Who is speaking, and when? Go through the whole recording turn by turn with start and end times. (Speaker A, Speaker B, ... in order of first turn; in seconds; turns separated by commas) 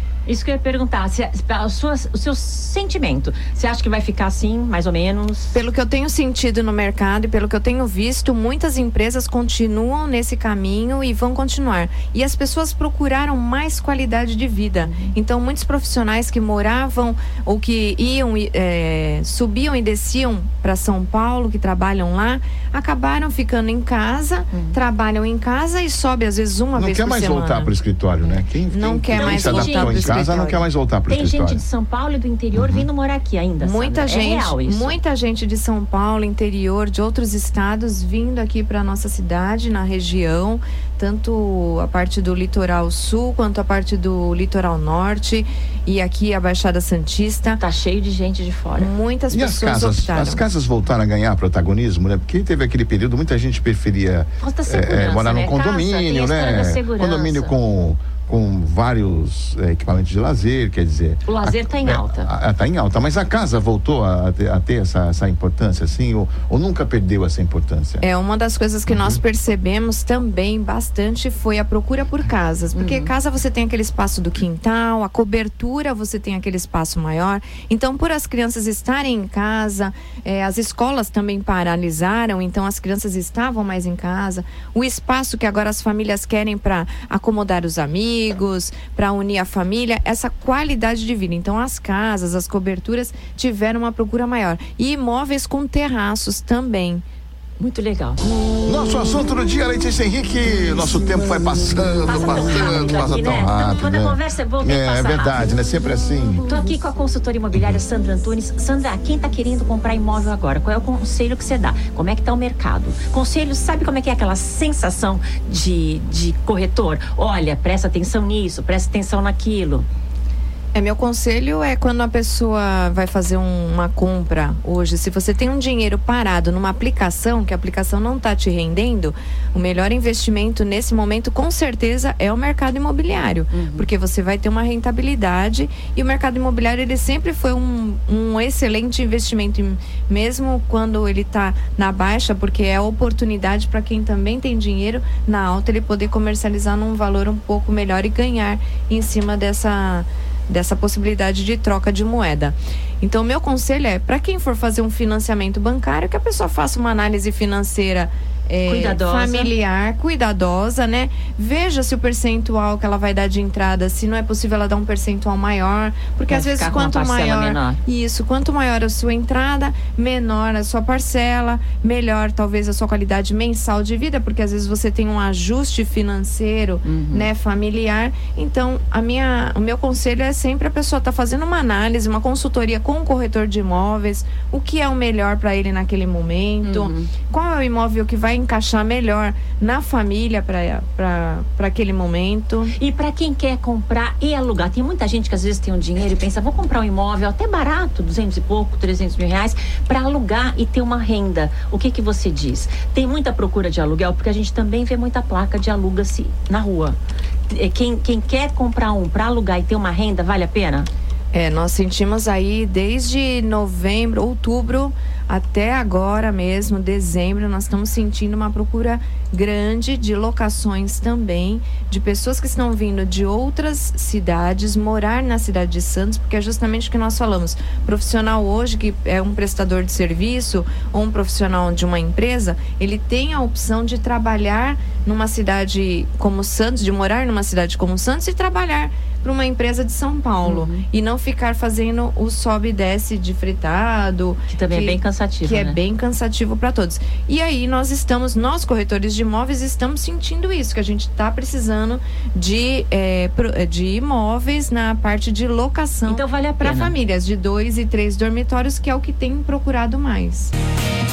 Speaker A: 0.3-5.5, Speaker B: 5.5-27.7, Speaker A: 14.8-15.2, Speaker A: 24.5-24.8, Speaker C: 26.8-31.6, Speaker B: 28.6-30.7, Speaker A: 29.1-30.3, Speaker A: 31.1-35.0, Speaker C: 32.5-32.9, Speaker B: 33.6-47.6, Speaker A: 47.6-48.9, Speaker B: 48.8-50.5, Speaker C: 49.3-68.0, Speaker A: 54.4-57.5, Speaker A: 61.2-62.3, Speaker B: 68.0-97.0, Speaker C: 68.9-69.2, Speaker A: 72.8-73.1, Speaker A: 97.6-98.2, Speaker C: 98.6-106.5, Speaker A: 102.1-105.5, Speaker A: 106.5-119.9, Speaker C: 107.5-107.8, Speaker B: 120.7-192.7, Speaker A: 133.5-133.9, Speaker A: 158.7-159.5, Speaker A: 166.3-167.8, Speaker A: 176.8-177.3, Speaker A: 186.6-187.1, Speaker A: 192.8-207.0, Speaker A: 207.5-210.9, Speaker B: 211.3-260.5, Speaker A: 240.4-240.8, Speaker A: 244.5-245.8, Speaker A: 256.1-257.0